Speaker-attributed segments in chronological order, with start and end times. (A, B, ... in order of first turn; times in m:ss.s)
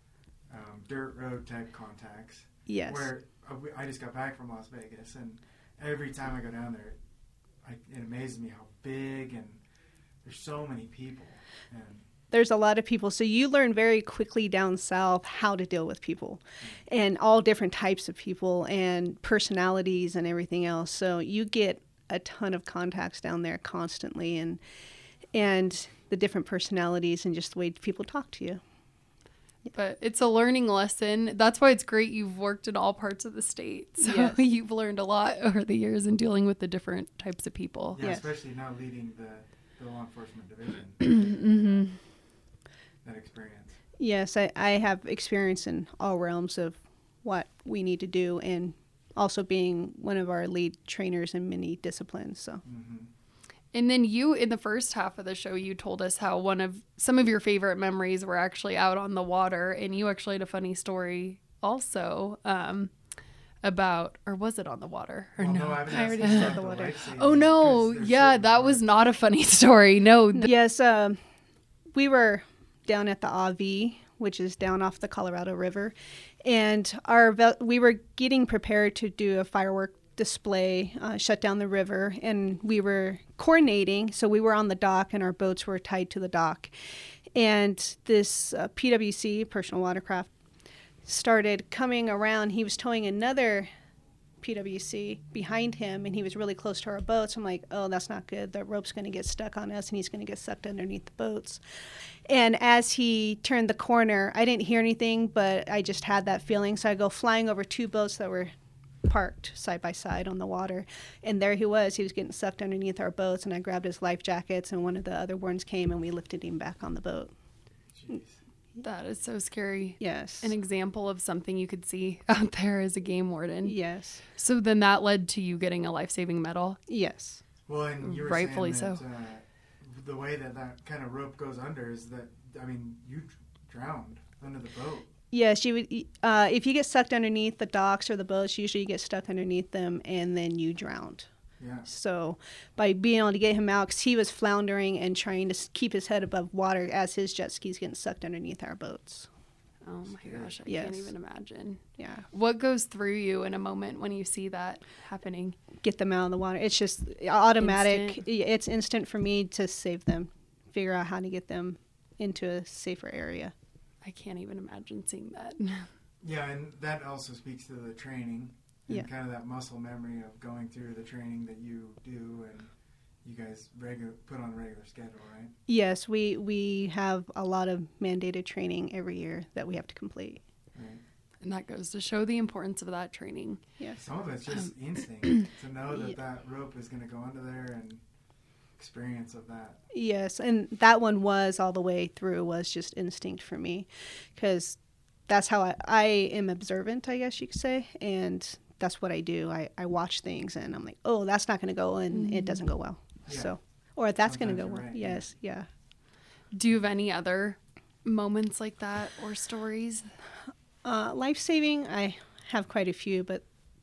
0:00.5-0:07.0 A
0:02.7-0:03.1 B
0:07.6-0:09.6 A
0:10.2-0:12.1 A
0:12.3-0:24.6 B
0:25.3-0:28.6 B
0:29.7-0:38.0 C
0:34.0-0:34.4 B
0:38.0-0:41.8 A
0:38.0-0:38.3 B
0:41.0-0:42.0 C
0:43.0-0:43.8 A
0:44.0-0:52.6 B
0:52.6-0:53.1 A
0:53.7-1:02.9 C
1:03.6-1:10.5 C
1:05.4-1:08.8 A
1:05.9-1:07.0 B
1:10.3-1:11.2 B
1:11.9-1:26.7 B
1:27.4-1:30.3 B
1:31.0-1:33.7 B
1:34.4-1:41.6 B
1:42.3-1:48.5 B
1:49.0-1:57.3 B
1:57.9-1:58.4 A
1:58.8-2:03.8 C
2:00.0-2:00.5 B
2:03.6-2:04.2 B
2:04.3-2:06.8 C
2:06.9-2:07.4 B
2:07.7-2:15.1 A
2:08.0-2:09.0 C
2:15.3-2:21.3 B
2:21.6-2:21.9 A
2:21.9-2:29.3 B
2:29.8-2:35.6 C
2:30.1-2:30.5 A
2:30.7-2:31.1 B
2:32.0-2:32.2 B
2:35.8-2:43.5 B
2:37.6-2:38.2 C
2:44.0-2:45.9 C
2:46.2-2:52.7 A
2:53.2-2:55.5 A
2:55.7-3:00.4 B
3:00.7-3:01.0 A
3:01.4-3:03.6 C
3:04.0-3:08.0 A
3:05.9-3:06.2 B
3:08.8-3:09.8 A
3:09.9-3:25.7 B
3:22.1-3:22.6 C
3:23.3-3:23.5 A
3:24.2-3:25.3 A
3:26.5-3:30.1 C
3:30.8-3:33.4 B